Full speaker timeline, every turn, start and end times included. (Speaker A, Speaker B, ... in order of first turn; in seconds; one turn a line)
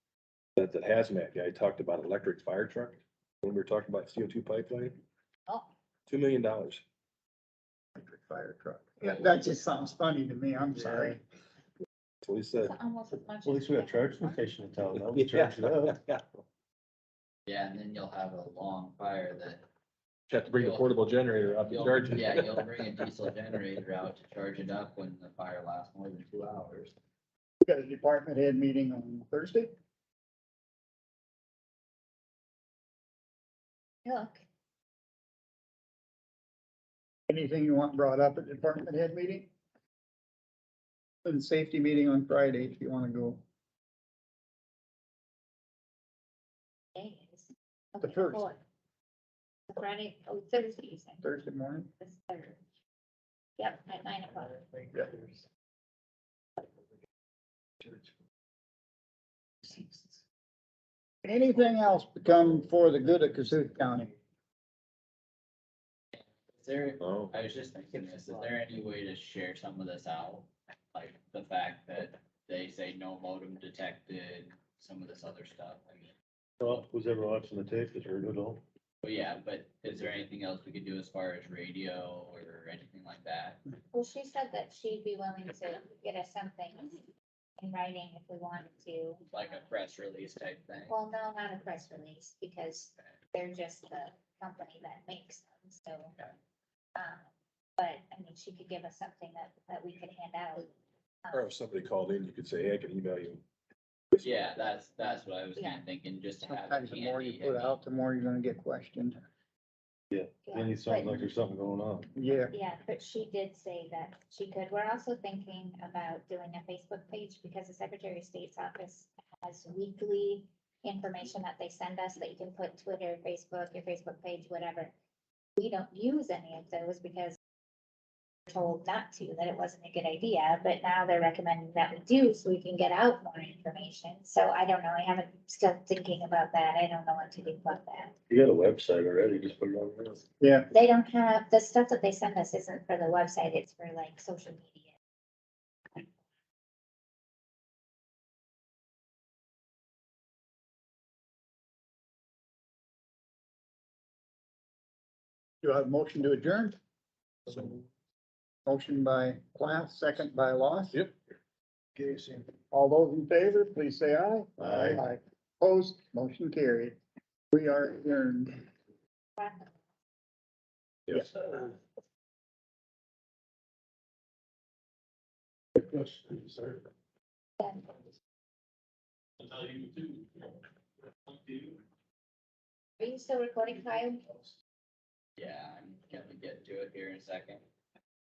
Speaker A: 0.6-5.0
Speaker A: 6.1-6.8
Speaker B: 8.0-11.2
Speaker A: 12.2-12.7
Speaker C: 12.6-14.4
Speaker D: 13.4-16.0
Speaker A: 15.0-15.9
Speaker E: 17.4-19.6
Speaker A: 20.3-22.6
Speaker E: 20.4-21.0
Speaker E: 21.5-26.9
Speaker B: 27.6-29.7
Speaker C: 34.0-34.4
Speaker B: 37.3-39.5
Speaker B: 41.2-43.4
Speaker C: 46.9-48.6
Speaker B: 48.0-48.5
Speaker C: 49.7-51.2
Speaker B: 51.2-51.9
Speaker C: 52.0-52.6
Speaker C: 53.6-54.6
Speaker B: 61.2-64.1
Speaker E: 66.1-76.1
Speaker A: 67.0-67.3
Speaker D: 76.6-78.6
Speaker E: 79.0-83.6
Speaker C: 83.9-87.1
Speaker C: 87.6-89.6
Speaker E: 89.3-90.9
Speaker C: 90.9-96.1
Speaker C: 97.0-100.7
Speaker C: 101.2-101.5
Speaker A: 101.3-103.4
Speaker E: 104.2-107.8
Speaker C: 105.5-105.8
Speaker B: 106.4-109.2
Speaker A: 110.1-112.0
Speaker C: 110.4-111.2
Speaker D: 110.7-111.8
Speaker B: 112.1-112.5
Speaker C: 112.5-124.9
Speaker C: 125.6-127.4
Speaker C: 128.5-138.1
Speaker D: 138.4-139.8
Speaker A: 139.1-140.2
Speaker B: 140.4-140.7
Speaker C: 140.7-144.9
Speaker B: 155.6-156.8
Speaker B: 158.7-161.0
Speaker A: 162.0-162.4
Speaker B: 162.7-167.0
Speaker B: 167.5-168.7
Speaker C: 169.4-169.8
Speaker A: 171.1-171.6
Speaker A: 175.8-176.8
Speaker C: 177.6-177.9
Speaker A: 179.4-180.5
Speaker A: 181.3-181.6
Speaker C: 183.0-184.5
Speaker E: 185.4-187.6